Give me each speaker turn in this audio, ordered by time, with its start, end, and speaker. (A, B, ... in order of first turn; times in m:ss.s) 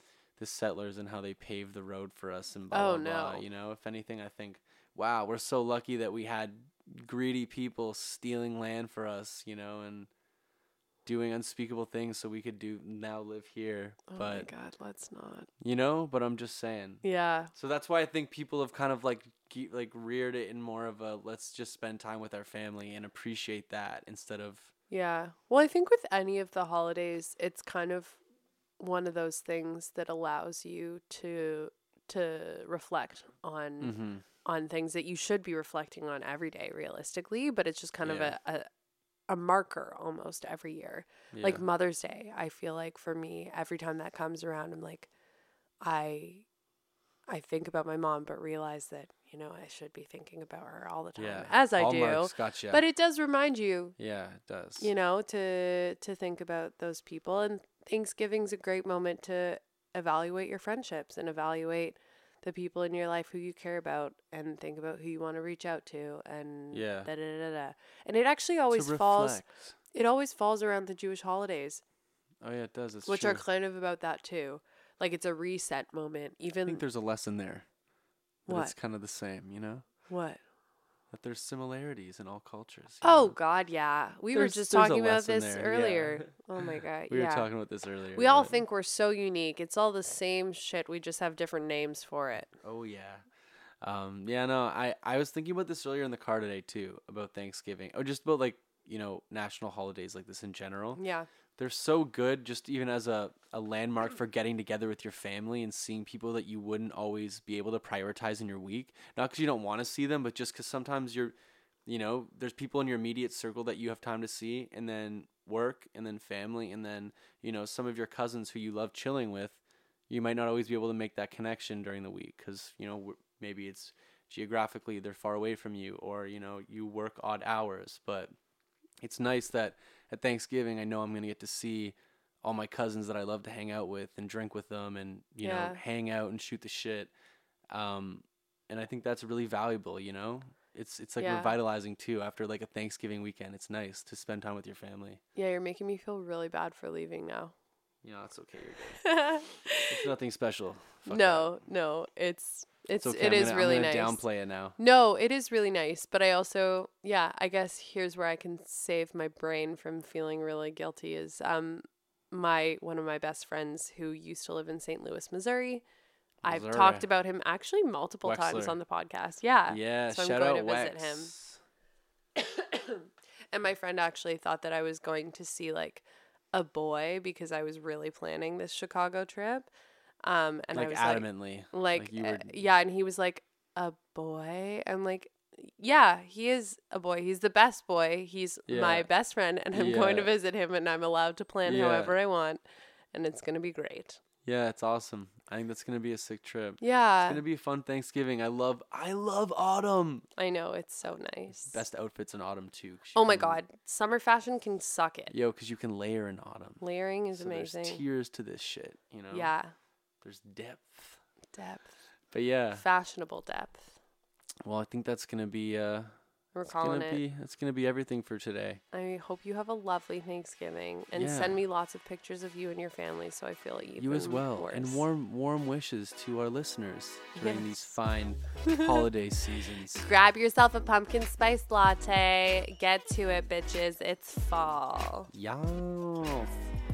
0:00.4-0:10.1 A
0:02.7-0:03.4 B
0:11.0-0:14.5 A
0:14.1-0:15.5 B
0:15.6-0:24.7 A
0:17.0-0:17.5 B
0:24.9-0:28.2 B
0:28.8-0:38.7 B
0:33.8-0:34.2 A
0:38.0-0:38.3 A
0:39.3-0:45.1 B
0:41.3-0:41.6 A
0:45.8-0:46.4 B
0:47.3-0:54.0 B
0:51.2-0:52.8 A
0:54.0-0:54.9 A
0:54.8-1:11.8 B
1:06.7-1:07.1 A
1:08.7-1:09.8 A
1:12.4-1:13.4 A
1:13.1-1:16.8 B
1:16.6-1:17.7 A
1:18.5-1:18.7 B
1:18.5-1:19.8 A
1:20.1-1:20.4 B
1:21.1-1:23.3 A
1:23.0-1:27.5 B
1:24.3-1:28.6 A
1:28.2-1:32.5 B
1:32.6-1:33.2 A
1:33.8-1:41.0 A
1:41.0-1:41.3 B
1:41.6-1:51.3 A
1:51.8-2:08.3 A
2:09.0-2:17.1 A
2:15.4-2:15.8 B
2:17.7-2:25.2 A
2:21.2-2:21.5 B
2:25.3-2:27.5 B
2:28.0-2:29.1 A
2:29.0-2:30.1 B
2:29.8-2:31.5 A
2:31.1-2:34.2 B
2:33.0-2:34.8 A
2:34.8-2:45.8 B
2:46.4-2:47.0 A
2:46.4-2:51.3 B
2:48.2-2:48.8 A
2:49.7-2:51.6 A
2:52.4-2:59.7 B
3:00.2-3:12.6 B
3:00.7-3:02.6 A
3:08.7-3:09.1 A
3:09.7-3:10.3 A
3:11.6-3:12.1 A
3:13.1-3:14.2 B
3:14.4-3:20.3 A
3:16.8-3:17.4 B
3:20.4-3:21.8 B
3:21.6-3:23.6 A
3:23.1-3:25.3 B
3:25.3-3:26.8 A
3:26.8-3:28.0 B
3:27.3-3:29.5 A
3:29.3-3:29.7 B
3:30.2-3:31.2 A
3:31.5-3:31.9 B
3:32.3-3:32.8 A
3:32.7-3:34.0 B
3:34.6-3:36.2 A
3:36.5-3:37.2 B
3:36.8-3:38.8 A
3:38.9-3:45.0 B
3:41.1-3:41.6 A
3:44.0-3:50.1 A
3:47.4-3:47.8 B
3:48.6-3:49.0 B
3:50.0-3:55.3 B
3:55.3-3:56.6 A